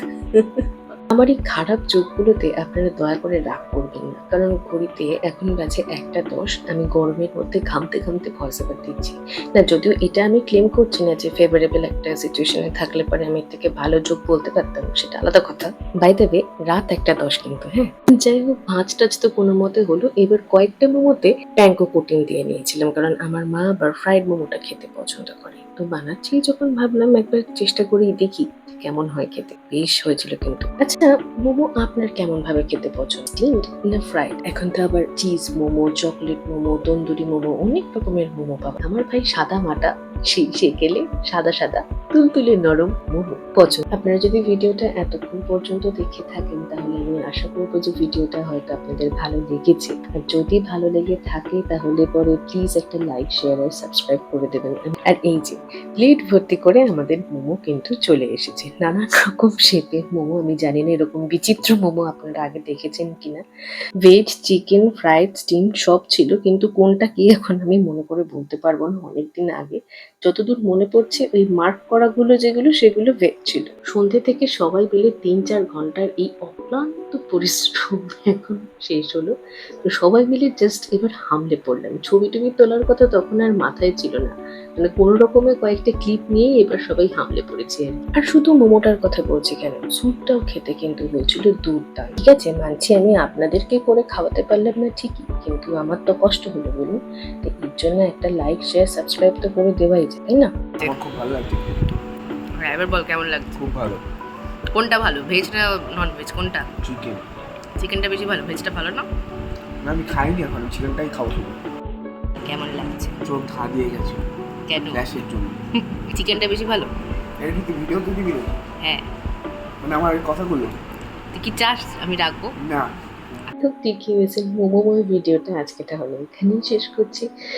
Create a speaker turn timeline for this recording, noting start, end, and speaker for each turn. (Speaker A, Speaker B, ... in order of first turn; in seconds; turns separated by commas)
Speaker A: 0.4-63.4, Speaker A: 64.0-79.3, Speaker A: 79.9-100.5, Speaker B: 100.8-101.6, Speaker C: 102.7-103.5, Speaker B: 103.5-104.0, Speaker C: 104.8-106.6, Speaker B: 106.8-107.2, Speaker C: 107.8-109.0, Speaker B: 109.8-111.5, Speaker C: 112.4-113.1, Speaker B: 113.2-114.2, Speaker B: 114.9-115.5, Speaker C: 116.2-116.9, Speaker B: 117.4-118.5, Speaker B: 119.8-120.7, Speaker C: 121.3-122.5, Speaker A: 123.6-127.3